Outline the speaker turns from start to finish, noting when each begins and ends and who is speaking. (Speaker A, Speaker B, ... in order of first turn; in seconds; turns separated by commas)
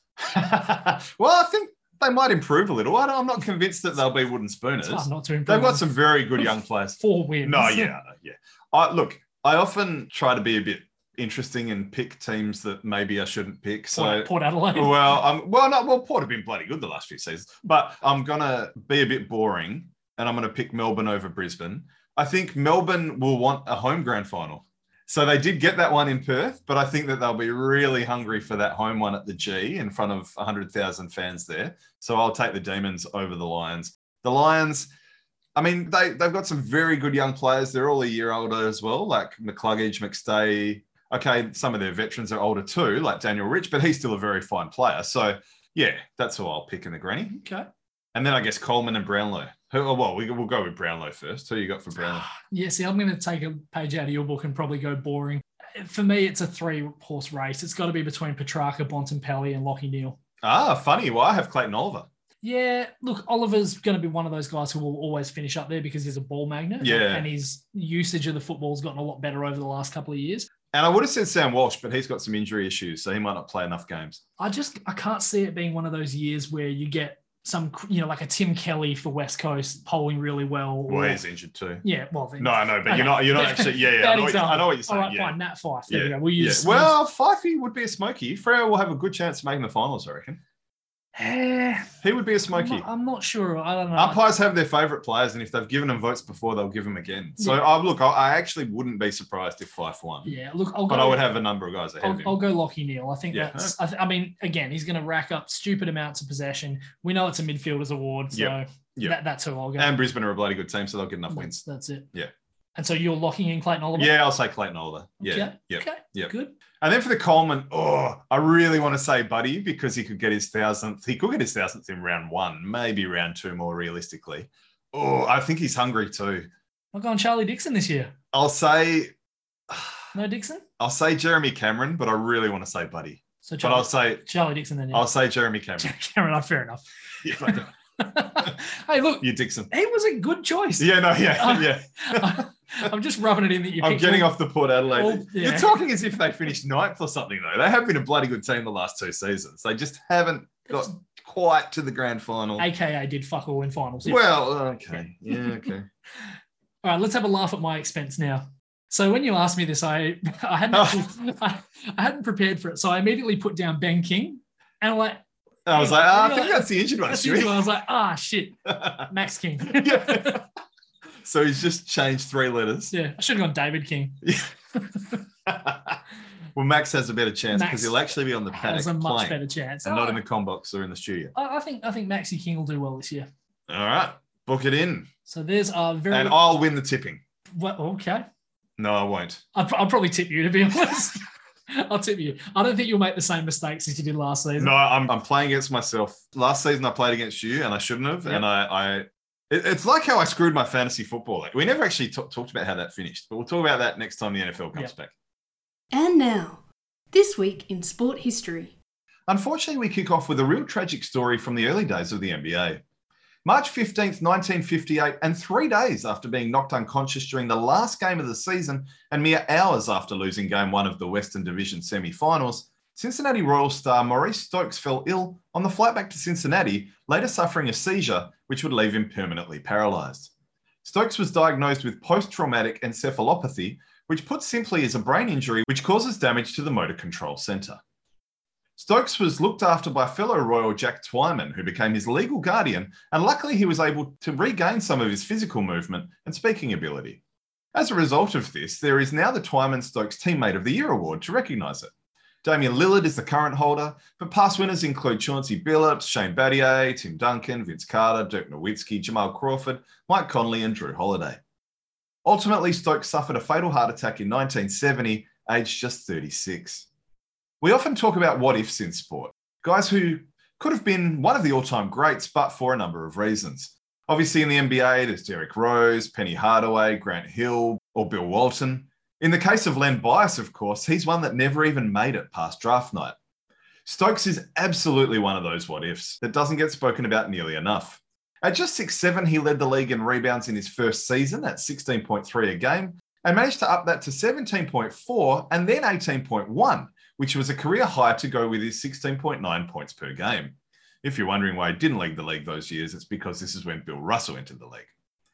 Speaker A: 0.2-34.9, Speaker B: 4.8-7.9, Speaker B: 13.9-15.2, Speaker A: 35.5-47.4, Speaker B: 47.3-47.7, Speaker A: 48.1-52.3, Speaker B: 52.0-60.2, Speaker A: 60.4-62.1, Speaker B: 62.4-70.5, Speaker A: 66.8-67.3, Speaker A: 70.7-74.2, Speaker B: 74.4-81.2, Speaker A: 80.9-81.8, Speaker B: 81.8-86.9, Speaker A: 82.4-85.4, Speaker A: 85.9-90.4, Speaker B: 91.1-91.9, Speaker A: 92.0-92.8, Speaker B: 92.5-94.2, Speaker A: 94.0-100.3, Speaker B: 100.2-101.2, Speaker A: 100.9-102.4, Speaker B: 102.0-109.9, Speaker A: 103.3-103.7, Speaker A: 108.3-109.2, Speaker A: 109.8-111.6, Speaker B: 111.3-112.1, Speaker B: 112.8-114.1, Speaker A: 113.9-126.5, Speaker B: 115.2-116.5, Speaker B: 126.9-128.1, Speaker A: 128.3-129.1, Speaker A: 129.7-130.0, Speaker B: 130.1-130.6, Speaker A: 130.8-134.2, Speaker B: 133.4-135.1, Speaker A: 134.9-135.9, Speaker B: 135.8-144.3, Speaker A: 137.2-137.7, Speaker A: 139.2-139.7, Speaker A: 140.8-142.4, Speaker A: 143.8-152.7, Speaker B: 144.9-145.7, Speaker B: 152.6-154.3, Speaker A: 154.0-155.9, Speaker B: 155.3-155.6, Speaker B: 156.8-170.4, Speaker A: 160.7-161.0, Speaker A: 165.7-167.6, Speaker A: 168.7-169.1, Speaker A: 169.7-170.4, Speaker A: 171.2-172.9, Speaker B: 172.9-174.2, Speaker A: 174.2-174.5, Speaker A: 175.4-176.0, Speaker A: 176.5-181.3, Speaker B: 177.5-180.2, Speaker B: 181.3-183.3, Speaker A: 183.7-185.1, Speaker B: 185.2-186.4, Speaker A: 186.1-187.2, Speaker B: 187.5-188.2, Speaker A: 188.8-189.4, Speaker B: 189.5-194.7, Speaker A: 194.6-205.1, Speaker C: 205.9-208.8, Speaker A: 209.3-212.8, Speaker A: 213.4-230.3, Speaker A: 230.8-237.8, Speaker A: 238.8-247.2, Speaker A: 247.7-251.9, Speaker A: 252.4-261.4, Speaker A: 262.2-266.9, Speaker A: 267.6-283.1, Speaker A: 283.9-304.9